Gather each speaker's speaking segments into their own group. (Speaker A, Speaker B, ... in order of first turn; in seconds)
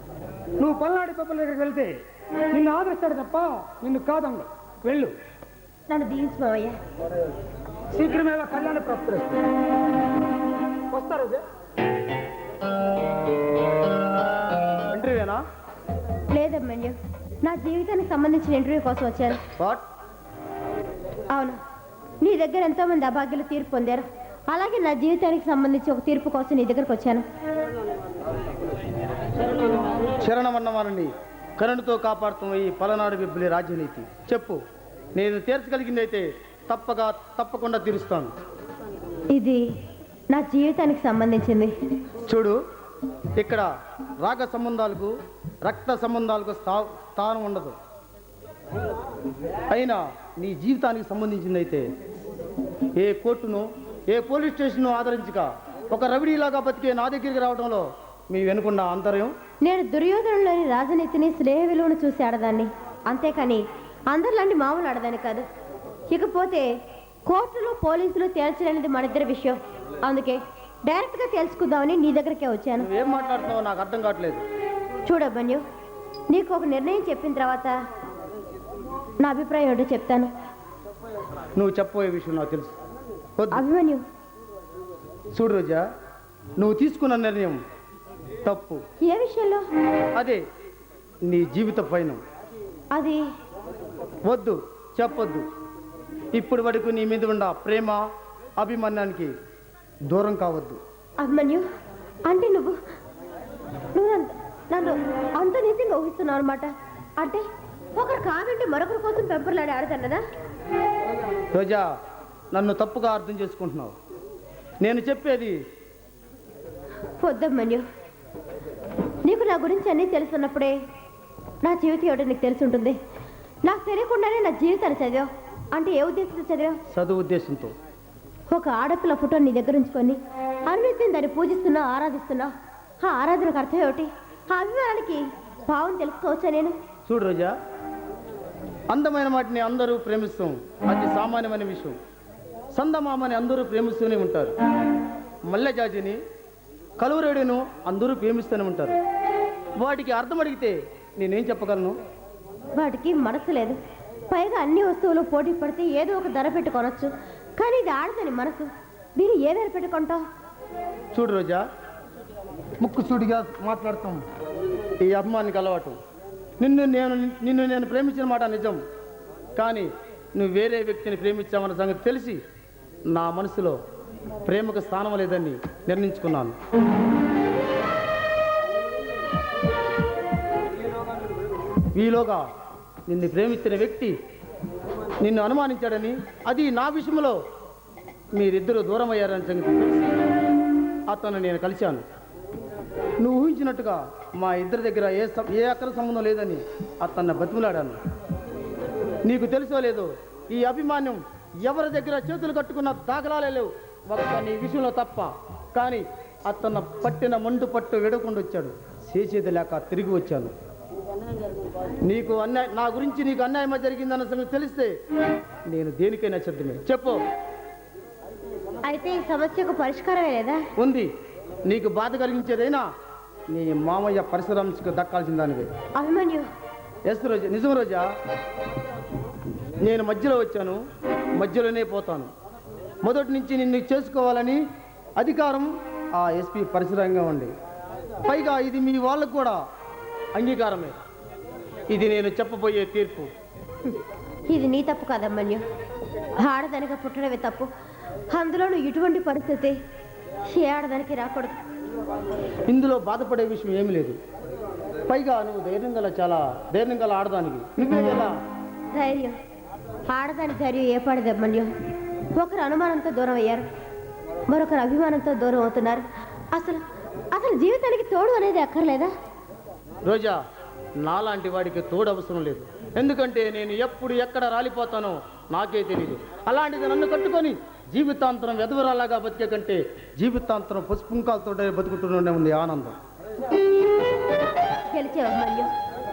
Speaker A: 0.6-5.1, 7.9-9.4, 10.9-11.4
Speaker B: 5.9-6.7, 16.3-19.4, 21.3-21.6, 22.2-27.2, 39.3-39.6, 40.3-41.7, 59.6-65.4, 66.1-66.7, 67.3-72.9, 75.0-75.6, 76.3-77.7, 79.2-80.3, 83.5-84.0, 89.0-89.6, 92.9-93.2, 101.2-101.6, 102.3-102.7, 103.9-106.7, 107.9-110.2, 117.2-117.8, 119.2-120.7, 121.6-123.0, 123.7-126.8, 128.5-132.5, 133.0-136.7, 152.8-153.8, 154.3-160.2, 218.8-220.6, 226.0-226.4, 244.5-245.6, 246.4-247.7, 248.3-249.7, 250.5-251.6, 258.9-259.4, 260.1-261.7, 262.3-263.6, 264.5-269.1, 284.9-285.7
Speaker C: 14.9-15.4, 19.6-19.8, 30.2-34.6, 35.1-38.3, 42.3-42.6, 43.4-43.7, 44.2-45.1, 45.6-47.7, 49.7-51.8, 53.0-59.3, 72.8-74.4, 81.5-82.7, 83.4-83.6, 85.3-85.8, 86.6-87.6, 88.4-88.8, 90.1-90.4, 91.3-92.2, 94.2-95.4, 96.3-98.0, 98.6-99.3, 100.1-100.8, 111.5-111.8, 112.5-113.9, 114.8-115.5, 126.9-127.7, 137.1-137.5, 138.9-142.0, 142.7-144.5, 145.5-146.2, 147.0-149.0, 149.8-152.0, 161.1-161.6, 162.8-164.2, 165.0-165.9, 166.6-168.8, 169.6-172.4, 173.1-173.8, 174.4-176.6, 181.9-182.4, 183.1-184.1, 185.2-187.4, 188.3-190.2, 191.1-192.0, 193.2-198.0, 199.2-210.5, 212.0-214.9, 215.7-217.2, 220.8-221.1, 221.7-222.8, 223.5-225.7, 227.1-228.1, 229.8-230.8, 231.3-232.3, 233.0-234.6, 235.2-237.5, 238.2-239.6, 240.3-240.9, 241.9-243.3, 252.7-254.2, 255.1-258.3, 270.0-270.4, 271.0-282.9